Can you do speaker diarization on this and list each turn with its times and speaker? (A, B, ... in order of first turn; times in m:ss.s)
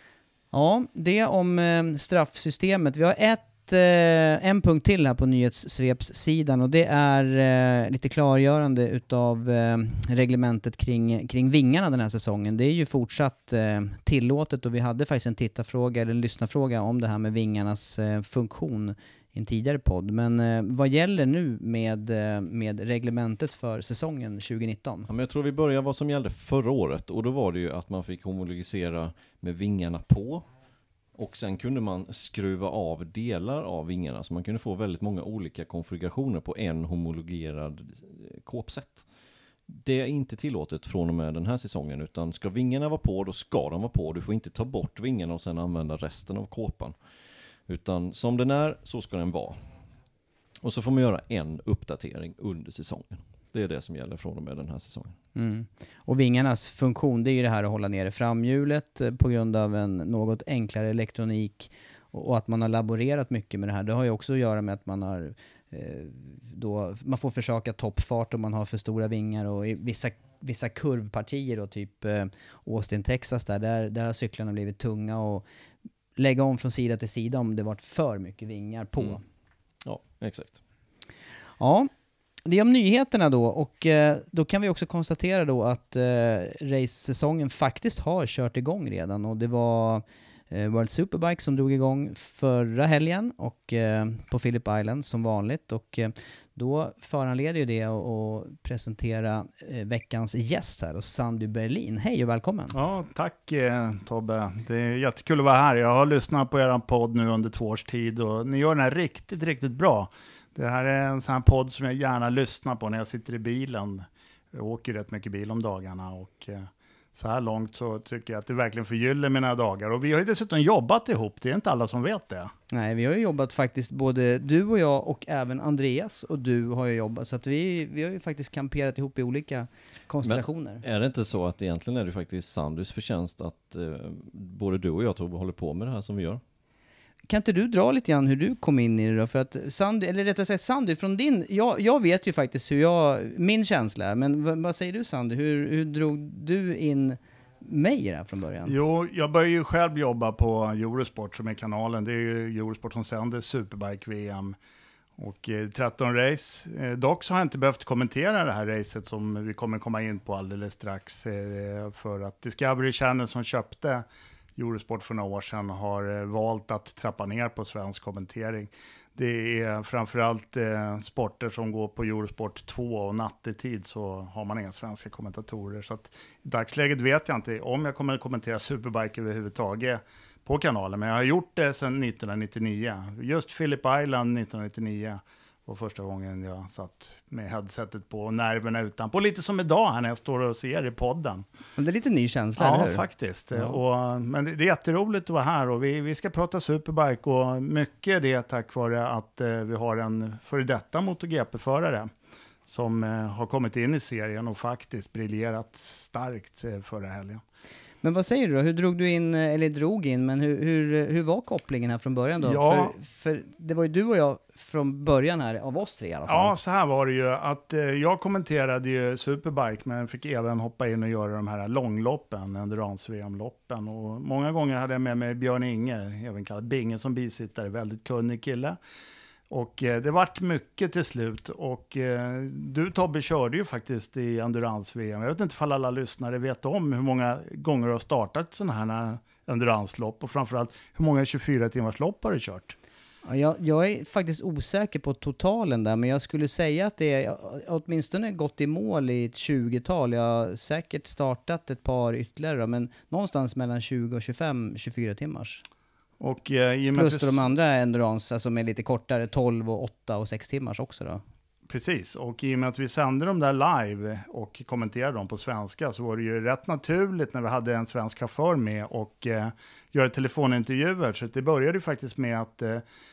0:00.5-0:25.1 A
0:25.1-0:30.5 B
0:31.2-0:39.0 B
0:39.7-0:47.0 B
0:47.7-0:49.6 B
0:50.6-0:55.2 B
0:55.3-1:15.4 A
1:16.2-1:19.2 A
1:19.8-1:20.6 B
1:21.6-1:21.9 A
1:22.4-1:42.7 A
1:42.7-2:02.5 C
2:02.7-2:10.8 A
2:10.2-2:16.4 B
2:17.3-2:28.7 A
2:28.6-2:34.6 C
2:35.2-2:44.0 C
2:44.6-3:11.5 C
3:11.8-3:13.0 A
3:12.6-3:22.1 C
3:22.7-3:27.4 C
3:28.0-3:36.5 A
3:32.4-3:32.9 C
3:36.3-3:48.8 C
3:49.5-4:02.8 C
4:03.2-4:15.6 A
4:16.2-4:17.4 C
4:16.9-4:21.2 A
4:21.7-4:32.8 C